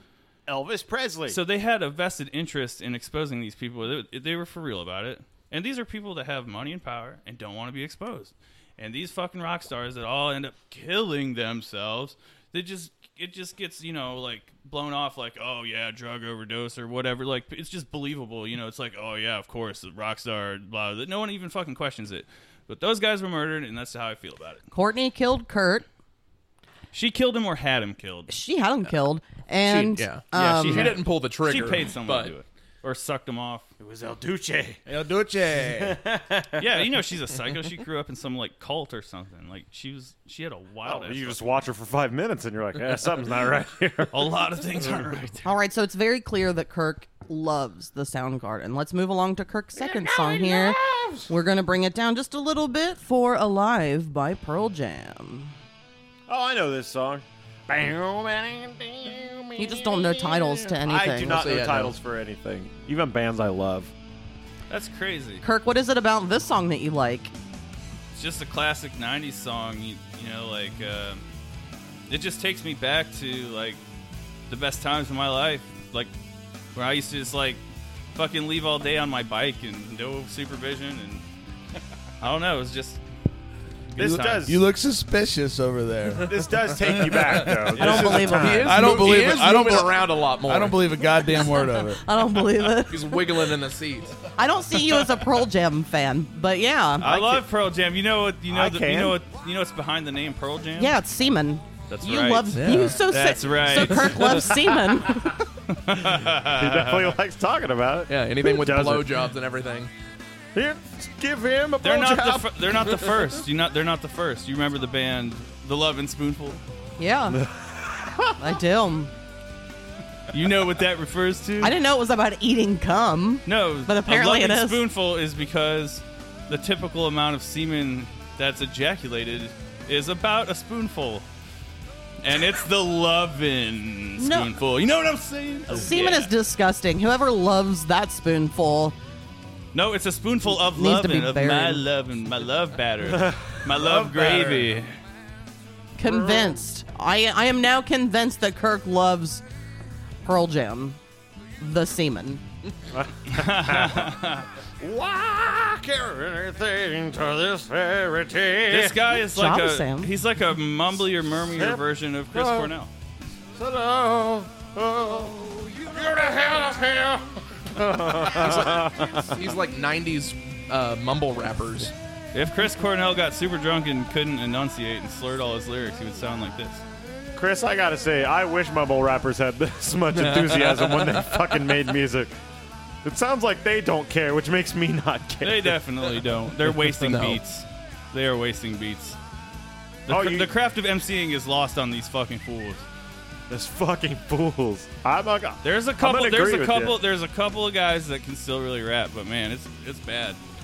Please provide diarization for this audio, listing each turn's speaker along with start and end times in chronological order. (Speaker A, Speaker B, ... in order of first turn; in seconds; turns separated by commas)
Speaker A: 0.5-1.4, Speaker B: 1.3-24.6, Speaker C: 24.7-25.9, Speaker B: 26.9-28.3, Speaker C: 28.3-31.0, Speaker D: 29.6-32.3, Speaker B: 30.6-33.7, Speaker A: 33.8-34.8, Speaker E: 34.9-36.0, Speaker A: 35.8-36.8, Speaker B: 36.6-41.5, Speaker A: 40.8-45.1, Speaker B: 44.1-45.5, Speaker C: 45.5-55.5, Speaker A: 49.8-51.3, Speaker A: 56.3-63.9, Speaker C: 59.6-61.4, Speaker D: 61.3-62.0, Speaker B: 64.7-65.4, Speaker C: 65.4-67.3, Speaker B: 68.1-71.2, Speaker B: 72.1-73.8, Speaker B: 74.5-76.1, Speaker B: 76.7-77.6, Speaker B: 78.2-81.2, Speaker B: 82.2-83.0, Speaker B: 83.9-84.5, Speaker A: 84.0-84.6, Speaker E: 84.5-87.8, Speaker A: 86.2-88.8, Speaker C: 87.8-88.8, Speaker B: 87.8-88.4, Speaker D: 88.2-91.0, Speaker E: 88.6-92.0, Speaker C: 91.9-93.2, Speaker D: 92.8-94.2, Speaker C: 94.3-97.1, Speaker B: 97.0-101.0, Speaker A: 98.5-99.2, Speaker C: 100.8-105.4, Speaker B: 101.9-104.6, Speaker D: 102.5-103.0, Speaker B: 105.7-107.2, Speaker A: 106.5-109.2, Speaker D: 108.1-109.9, Speaker A: 110.5-112.9, Speaker B: 111.8-116.6, Speaker C: 117.0-117.4, Speaker A: 117.3-118.5, Speaker C: 118.4-119.1, Speaker B: 120.3-121.8, Speaker C: 121.6-124.8, Speaker B: 123.5-131.2, Speaker B: 132.2-136.3, Speaker C: 134.2-134.6, Speaker C: 135.7-138.9, Speaker B: 139.7-144.9, Speaker C: 140.5-141.8, Speaker A: 143.1-143.5, Speaker E: 143.8-144.7, Speaker C: 146.0-149.4, Speaker A: 146.0-146.6, Speaker C: 150.2-151.0, Speaker C: 151.6-152.4, Speaker A: 152.9-154.1, Speaker B: 153.3-154.5, Speaker A: 154.8-159.0, Speaker B: 158.7-162.9, Speaker C: 159.1-160.1, Speaker A: 161.5-162.7, Speaker A: 163.6-169.3, Speaker D: 168.2-171.9, Speaker B: 172.3-176.8, Speaker A: 177.4-182.3, Speaker D: 180.1-181.7, Speaker A: 183.0-185.8, Speaker B: 185.4-189.2, Speaker D: 186.7-187.4, Speaker B: 190.1-192.8, Speaker A: 190.1-190.5, Speaker A: 193.5-197.0, Speaker B: 195.6-200.4